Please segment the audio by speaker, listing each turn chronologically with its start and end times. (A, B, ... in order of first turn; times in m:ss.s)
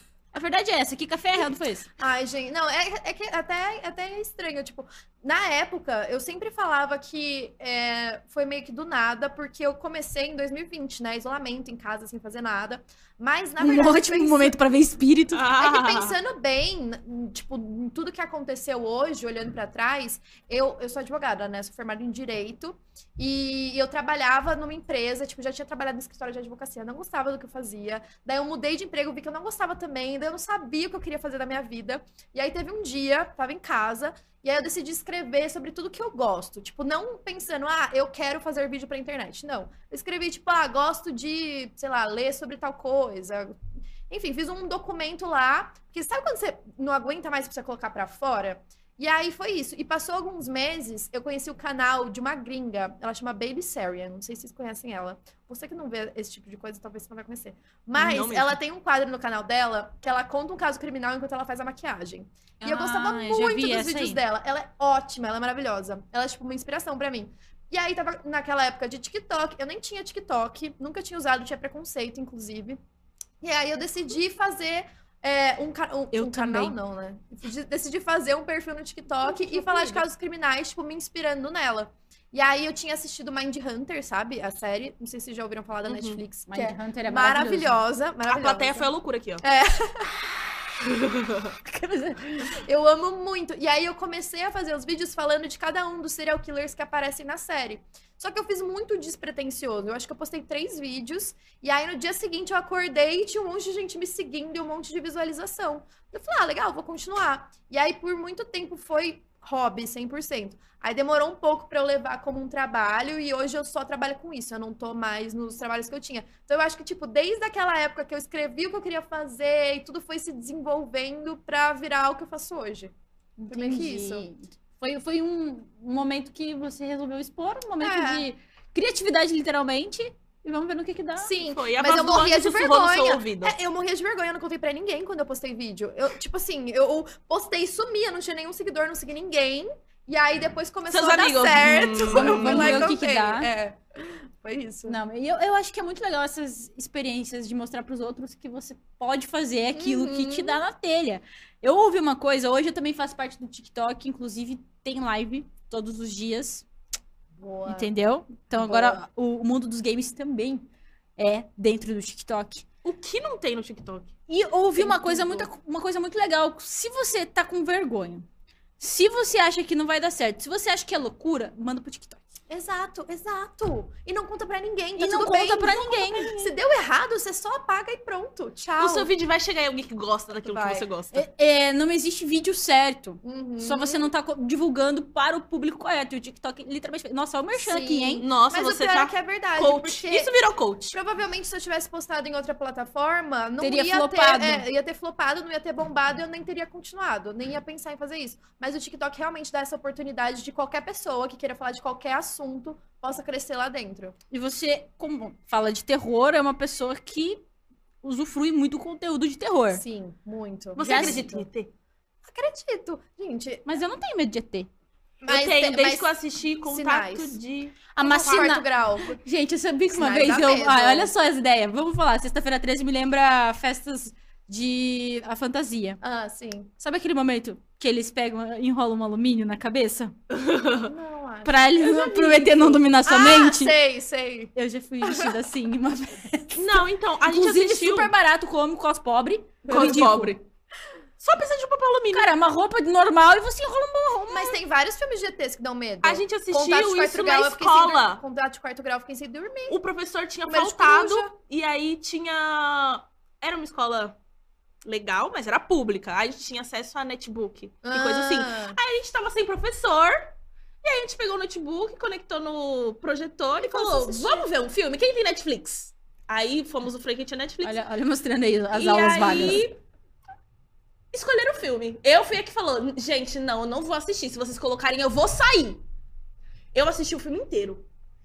0:00.3-0:01.9 A
0:02.0-0:14.6 B
0:13.6-0:15.4 A
0:15.3-0:16.2 C
0:15.6-0:43.6 B
0:44.1-1:12.8 B
0:58.0-0:58.6 C
1:02.6-1:04.2 A
1:13.4-1:28.9 B
1:16.1-1:16.8 A
1:19.4-1:20.0 A
1:25.8-1:26.2 C
1:26.5-1:27.8 A
1:28.3-1:29.4 C
1:29.4-1:30.1 B
1:31.6-1:32.6 A
1:32.5-2:02.9 B
2:03.4-2:11.3 A
2:03.5-2:04.3 B
2:07.8-2:08.3 B
2:11.2-2:25.0 B
2:11.4-2:13.6 C
2:20.9-2:22.9 C
2:22.1-2:23.5 A
2:24.9-2:36.7 A
2:29.7-2:30.6 B
2:37.4-2:37.9 B
2:37.6-2:42.6 A
2:38.5-2:39.0 B
2:42.8-2:44.1 C
2:44.3-2:48.3 A
2:44.8-2:45.5 B
2:48.8-2:52.3 A
2:52.5-2:59.1 B
2:55.0-2:56.4 A
2:58.8-3:01.2 C
3:00.5-3:00.9 B
3:01.1-3:08.2 A
3:03.2-3:04.1 B
3:07.5-3:10.3 B
3:08.2-3:11.0 C
3:10.9-3:24.2 B
3:13.6-3:14.6 A
3:24.3-3:27.4 A
3:28.0-3:29.8 A
3:29.7-3:31.5 B
3:30.8-3:31.7 C
3:30.8-3:31.3 A
3:32.2-3:33.7 B
3:33.6-3:34.7 A
3:35.2-3:36.1 B
3:35.3-3:38.5 C
3:36.6-3:37.4 B
3:38.0-3:38.7 A
3:38.0-3:39.2 B
3:39.2-3:46.0 A
3:39.9-3:41.1 B
3:46.0-3:46.7 B
3:46.8-3:50.2 A
3:50.3-3:50.9 C
3:50.8-3:55.4 B
3:51.4-3:53.7 A
3:54.6-3:56.7 A
3:56.5-3:58.1 C
3:57.2-4:00.3 A
3:59.6-4:00.0 B
3:59.7-4:00.4 C
4:01.2-4:02.3 C
4:02.1-4:04.6 A
4:04.3-4:09.8 B
4:06.0-4:08.2 C
4:09.7-4:14.2 C
4:10.5-4:11.3 B
4:14.8-4:27.8 C
4:17.8-4:18.8 B
4:23.6-4:24.5 B
4:27.6-4:29.7 A
4:28.7-4:29.8 C
4:31.1-4:35.8 C
4:36.7-4:37.9 C